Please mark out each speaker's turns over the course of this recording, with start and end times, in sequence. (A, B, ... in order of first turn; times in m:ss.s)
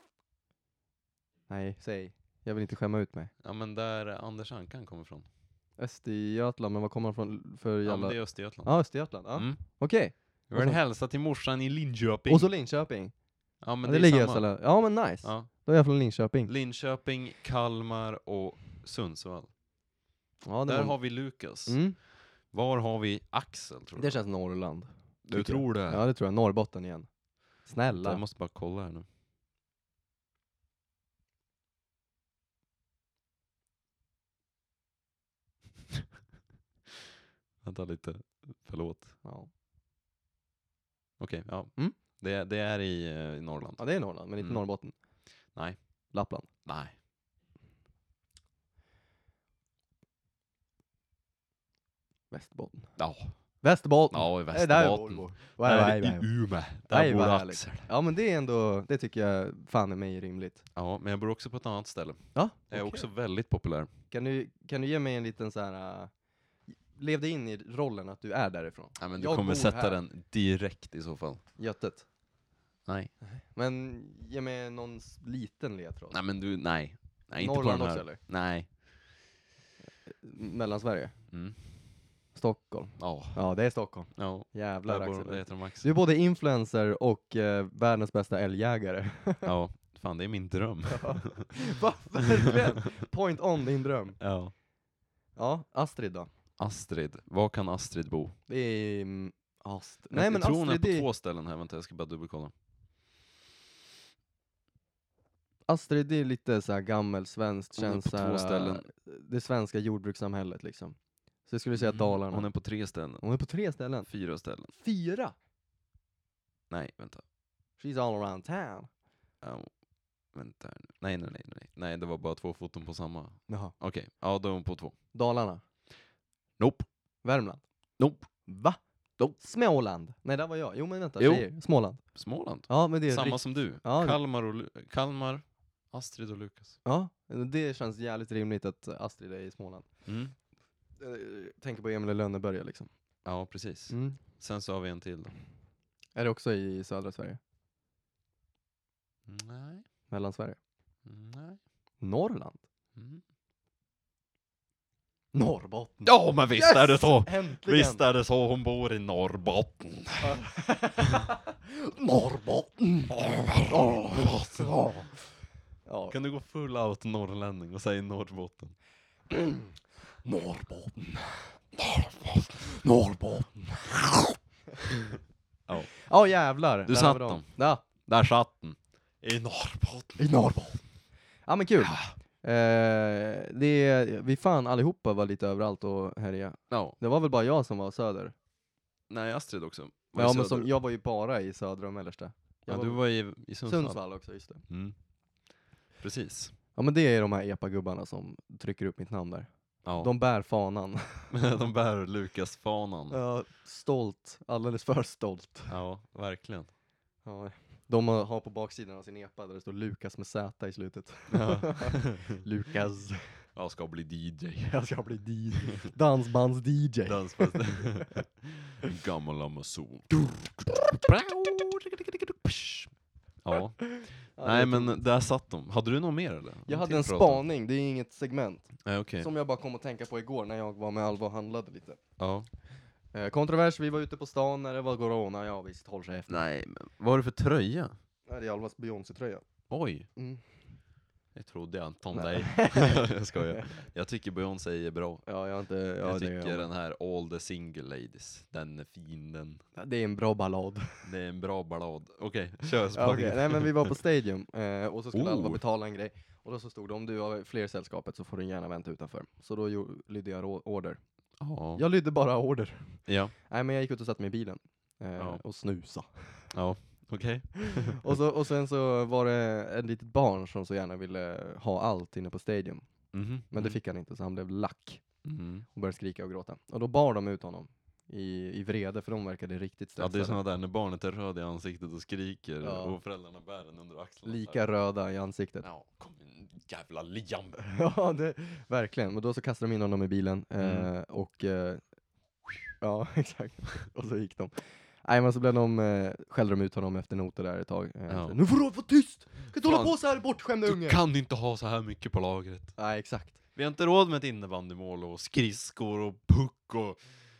0:01.5-0:03.3 A
0:03.4-0:05.3 B
0:05.8-0:10.8 A
0:07.8-0:09.6 B
0:10.5-0:12.5 B
0:12.3-0:13.1 A
0:13.6-0:14.5 B
0:13.8-0:16.5 A
0:15.2-0:15.5 B
0:16.4-0:19.5 B
0:20.4-0:22.0 A
0:20.6-0:24.2 B
0:24.0-0:27.1 A
0:25.2-0:26.0 B
0:27.6-0:28.2 A
0:27.9-0:29.0 B
0:37.6-0:39.2 B
0:39.2-0:39.5 A
0:41.2-0:44.6 B
0:43.8-0:45.0 A
0:45.5-0:45.8 B
0:46.1-0:46.5 A
0:46.6-0:47.0 B
0:52.3-0:53.0 A
0:53.0-0:53.4 B
0:53.6-0:56.3 A
0:54.1-0:57.9 B
0:56.8-1:00.6 A
1:00.7-1:03.9 B
1:02.3-1:03.1 A
1:04.1-1:06.1 A
1:06.7-1:10.0 A
1:09.0-1:11.4 B
1:11.6-1:12.1 A
1:12.8-1:13.1 B
1:13.2-1:16.2 A
1:16.1-1:18.7 B
1:17.4-1:18.2 A
1:20.1-1:21.2 A
1:21.3-1:21.6 B
1:22.3-1:29.5 A
1:23.0-1:23.4 B
1:24.1-1:25.9 B
1:29.4-1:31.5 B
1:30.9-1:34.2 A
1:34.2-1:34.5 B
1:35.4-1:36.3 A
1:36.6-1:38.4 B
1:38.5-1:41.0 A
1:40.1-1:42.5 B
1:45.7-1:52.6 A
1:47.8-1:48.9 B
1:51.7-1:53.2 B
1:53.2-1:54.1 A
1:54.0-1:54.7 B
1:54.7-1:55.3 A
1:56.7-1:57.2 B
1:57.8-1:58.9 A
1:59.4-1:59.7 B
2:00.3-2:05.0 B
2:03.5-2:03.7 A
2:05.1-2:05.6 A
2:06.6-2:06.9 B
2:07.2-2:07.6 A
2:08.0-2:08.3 B
2:08.4-2:08.8 A
2:09.3-2:12.0 A
2:11.2-2:11.5 B
2:12.0-2:16.8 B
2:12.6-2:14.2 A
2:16.8-2:19.9 A
2:20.0-2:20.3 B
2:21.0-2:22.9 A
2:23.2-2:25.3 B
2:23.9-2:24.2 A
2:26.1-2:27.4 A
2:29.3-2:29.8 B
2:30.1-2:30.6 A
2:31.0-2:31.6 B
2:32.0-2:32.6 A
2:33.0-2:33.2 B
2:35.3-2:38.0 A
2:36.0-2:40.3 B
2:40.2-2:45.0 A
2:43.1-2:45.1 B
2:45.8-2:46.2 A
2:46.1-2:48.8 B
2:49.3-2:49.7 A
2:50.2-2:51.6 A
2:51.9-2:52.5 B
2:52.8-2:54.8 A
2:55.7-2:55.9 B
2:56.0-2:57.8 A
2:56.8-3:00.2 B
3:00.2-3:00.8 A
3:01.4-3:08.3 A
3:01.8-3:02.1 B
3:06.7-3:07.0 B
3:09.1-3:10.7 B
3:10.1-3:13.0 A
3:12.7-3:14.0 B
3:13.6-3:14.6 A
3:14.7-3:14.9 B
3:16.0-3:16.5 B
3:16.7-3:21.3 A
3:19.8-3:20.1 B
3:21.3-3:23.2 B
3:23.1-3:25.7 A
3:25.7-3:26.7 B
3:27.2-3:33.4 A
3:31.3-3:32.4 B
3:33.5-3:34.8 B
3:34.7-3:38.1 A
3:37.0-3:47.4 B
3:44.0-3:45.0 A
3:46.7-3:52.0 A
3:48.8-3:49.3 B
3:52.2-3:52.5 B
3:53.1-3:56.4 A
3:56.3-3:58.0 B
3:58.3-3:59.4 A
3:59.7-4:00.1 B
4:00.1-4:00.4 A
4:01.3-4:05.2 B
4:02.1-4:03.6 A
4:05.2-4:06.7 A
4:06.0-4:09.6 B
4:09.7-4:11.0 A
4:11.0-4:13.9 B
4:12.9-4:21.0 A
4:15.1-4:15.6 B
4:21.4-4:21.8 B
4:21.7-4:26.5 A
4:23.0-4:23.3 B
4:25.2-4:25.4 B
4:26.5-4:28.2 B
4:27.6-4:35.2 A
4:33.1-4:33.8 B
4:35.2-4:35.6 B
4:35.7-4:40.4 A
4:40.0-4:44.6 B
4:42.6-4:43.0 A
4:44.2-4:45.7 A
4:45.6-4:47.6 B
4:47.6-4:51.8 A
4:50.6-4:50.9 B
4:52.8-5:01.0 A
4:58.1-4:58.4 B
4:59.6-5:02.7 B
5:02.8-5:03.4 A
5:03.5-5:07.0 B